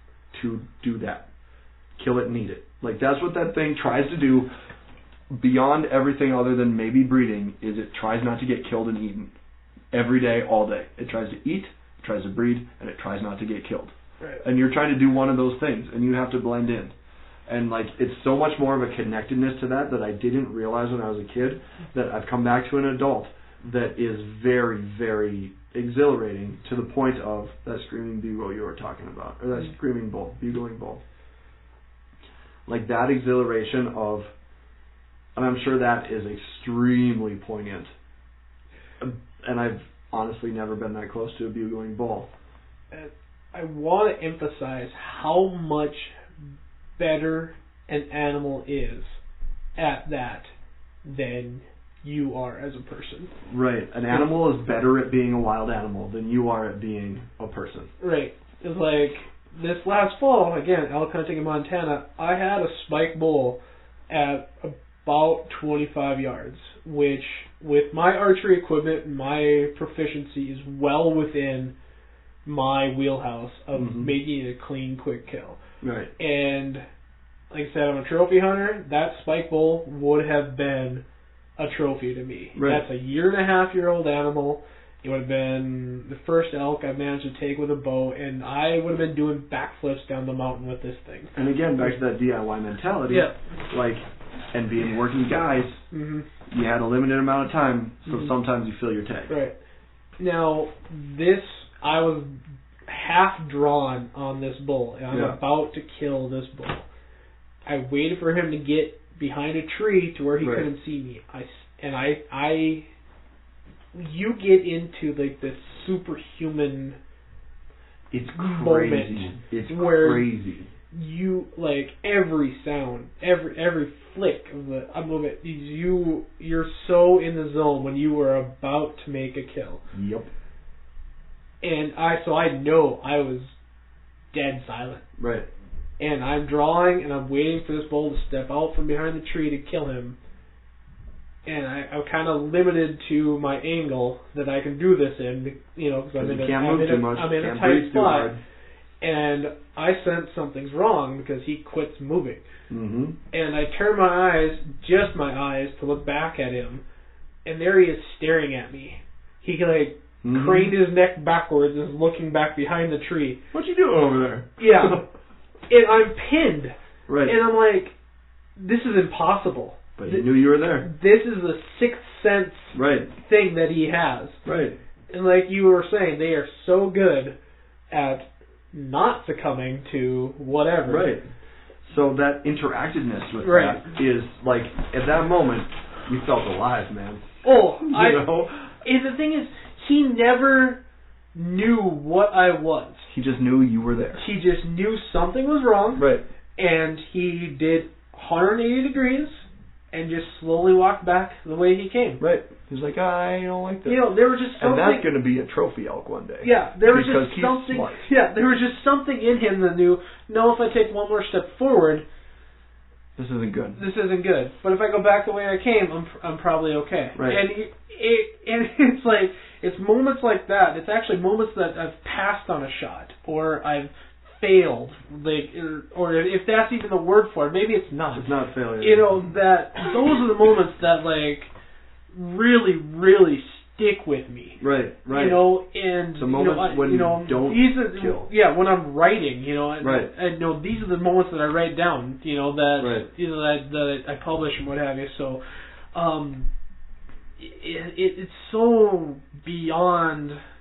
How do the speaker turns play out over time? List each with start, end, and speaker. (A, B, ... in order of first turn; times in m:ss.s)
0:00.3-0:01.3 A
0:02.0-0:04.5 A
0:05.3-0:09.3 A
0:09.9-0:16.9 A
0:17.5-0:31.0 A
0:32.6-0:34.3 A
0:35.3-0:37.9 A
0:39.0-0:42.3 A
0:42.9-0:46.2 B
0:47.0-0:49.2 B
0:49.8-0:50.5 B
0:51.0-0:53.3 B
0:53.5-0:57.9 A
0:58.0-1:11.7 B
1:12.4-1:15.6 B
1:13.7-1:14.1 A
1:15.8-1:16.1 A
1:16.2-1:16.8 B
1:17.5-1:21.0 B
1:21.6-1:31.3 B
1:22.5-1:22.8 A
1:31.3-1:35.8 A
1:33.1-1:33.4 B
1:35.9-1:36.2 B
1:36.5-1:39.3 A
1:39.3-1:39.6 B
1:40.2-1:46.8 B
1:45.1-1:45.4 A
1:47.6-1:52.9 B
1:50.4-1:50.7 A
1:53.9-1:57.0 B
1:58.1-2:00.7 A
1:58.4-2:00.3 B
2:00.9-2:09.8 B
2:09.9-2:10.3 A
2:11.6-2:13.5 B
2:14.3-2:15.0 B
2:15.2-2:15.5 A
2:16.0-2:20.2 B
2:21.4-2:28.3 B
2:26.2-2:28.4 A
2:29.0-2:32.4 B
2:32.7-2:33.2 A
2:33.3-2:36.8 B
2:37.4-2:43.4 B
2:40.2-2:40.8 A
2:43.5-2:45.0 A
2:44.6-2:45.0 B
2:45.7-2:47.9 B
2:47.1-2:47.4 A
2:48.6-2:50.3 B
2:50.0-2:50.9 A
2:50.8-2:54.4 B
2:52.7-2:53.1 A
2:54.4-2:54.8 A
2:55.1-2:57.4 B
2:57.9-3:01.1 B
3:00.9-3:01.3 A
3:01.8-3:08.7 A
3:03.4-3:03.8 B
3:07.4-3:08.3 B
3:08.8-3:10.8 B
3:11.3-3:13.1 B
3:13.1-3:14.2 A
3:14.2-3:22.2 B
3:16.0-3:16.2 A
3:22.2-3:24.0 A
3:23.8-3:25.1 B
3:24.6-3:28.0 A
3:26.4-3:32.0 B
3:33.2-3:33.8 A
3:33.8-3:51.5 B
3:37.1-3:37.4 A
3:48.1-3:49.3 A
3:52.1-4:05.4 B
3:54.6-3:55.5 A
3:56.1-3:58.3 A
3:59.8-4:00.1 A
4:02.8-4:03.1 A
4:05.9-4:06.5 B
4:07.4-4:10.4 B